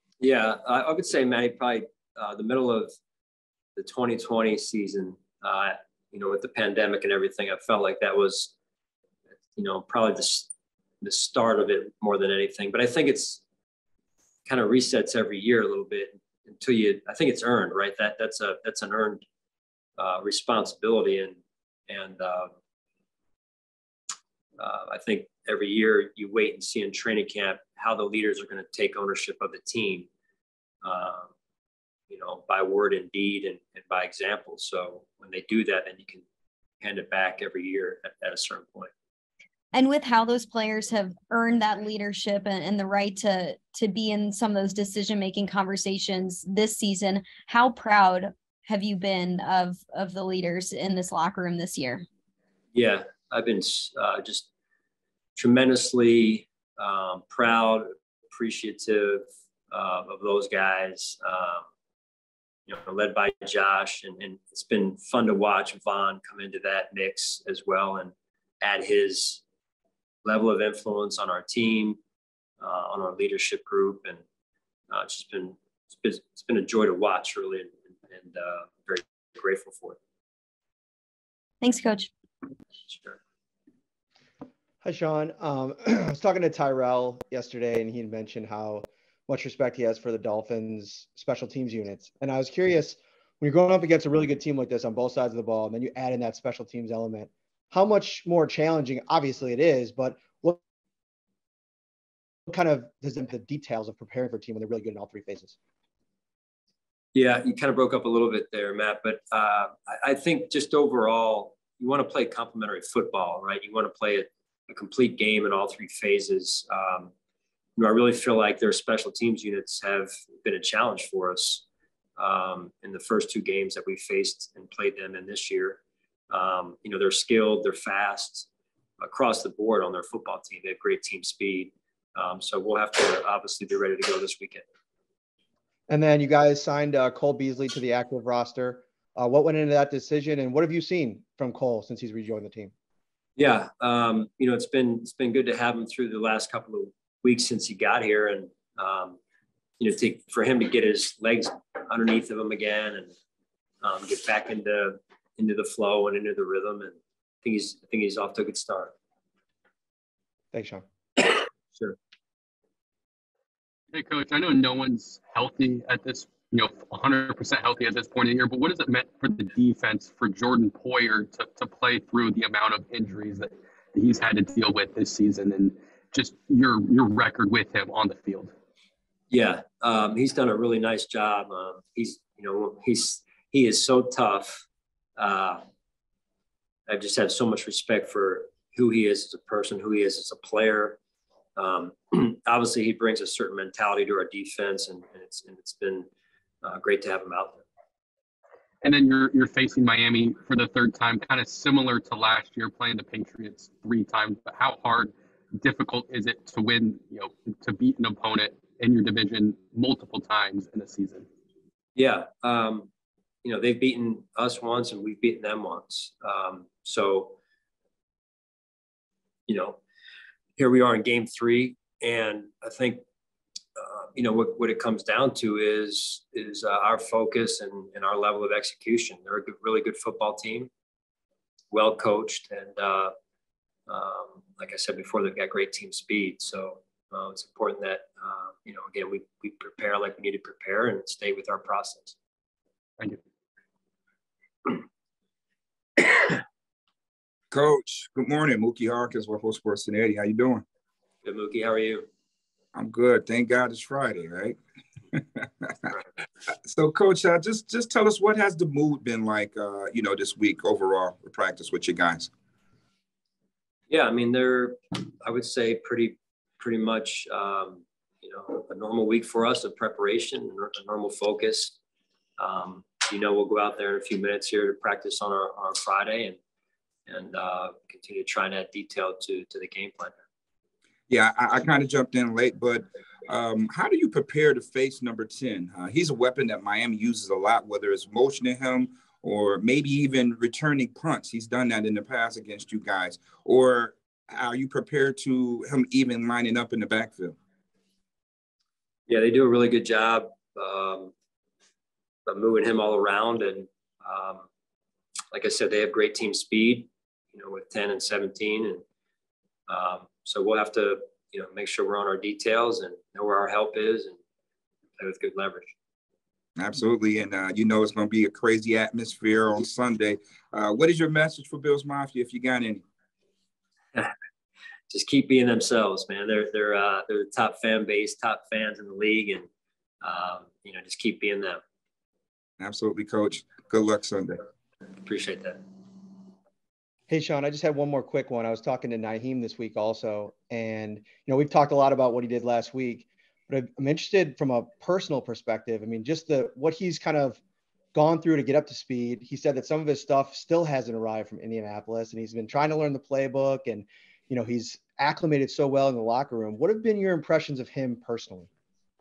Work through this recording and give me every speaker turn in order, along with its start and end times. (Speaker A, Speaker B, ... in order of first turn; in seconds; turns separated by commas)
Speaker A: 0.2-2.9, Speaker A: 3.8-8.5, Speaker A: 9.6-10.5, Speaker A: 11.0-13.4, Speaker A: 14.4-19.2, Speaker A: 20.0-22.5, Speaker A: 24.6-30.1, Speaker A: 30.8-31.3, Speaker A: 32.1-36.2, Speaker A: 36.8-38.9, Speaker B: 39.7-52.0, Speaker A: 52.7-54.5, Speaker A: 55.4-61.6, Speaker A: 62.7-69.4, Speaker A: 70.2-72.0, Speaker A: 72.6-74.2, Speaker A: 74.9-80.0, Speaker B: 81.6-82.1, Speaker A: 82.9-83.2, Speaker C: 84.8-100.6, Speaker C: 102.5-105.5, Speaker A: 107.1-117.1, Speaker A: 117.8-121.6, Speaker A: 122.2-125.8, Speaker A: 126.3-128.5, Speaker A: 129.0-134.6, Speaker C: 135.9-142.7, Speaker A: 143.4-149.2, Speaker A: 149.8-153.1, Speaker A: 153.8-158.9, Speaker C: 160.5-160.8, Speaker A: 161.2-161.9, Speaker D: 163.9-178.5, Speaker A: 179.3-184.6, Speaker A: 185.2-185.6, Speaker A: 186.9-191.0, Speaker A: 191.6-196.1, Speaker A: 196.6-197.6, Speaker D: 198.8-211.2, Speaker A: 211.9-212.9, Speaker A: 213.4-217.4, Speaker A: 219.5-219.8, Speaker A: 220.6-223.0, Speaker A: 223.8-230.7, Speaker A: 231.7-233.1, Speaker A: 233.9-242.2, Speaker E: 247.5-250.6, Speaker A: 251.2-252.1, Speaker E: 252.7-254.6, Speaker E: 255.1-255.4, Speaker E: 256.6-262.3, Speaker A: 263.9-271.8, Speaker A: 272.4-276.4, Speaker A: 277.1-280.2, Speaker E: 281.1-297.4, Speaker A: 299.1-301.1, Speaker A: 302.2-304.4, Speaker A: 305.3-308.8, Speaker A: 309.7-314.2, Speaker A: 315.0-315.7, Speaker E: 316.6-322.8, Speaker A: 324.9-329.5, Speaker A: 330.0-331.6, Speaker E: 332.6-334.4, Speaker A: 335.0-335.6, Speaker C: 337.1-347.4, Speaker C: 347.9-358.5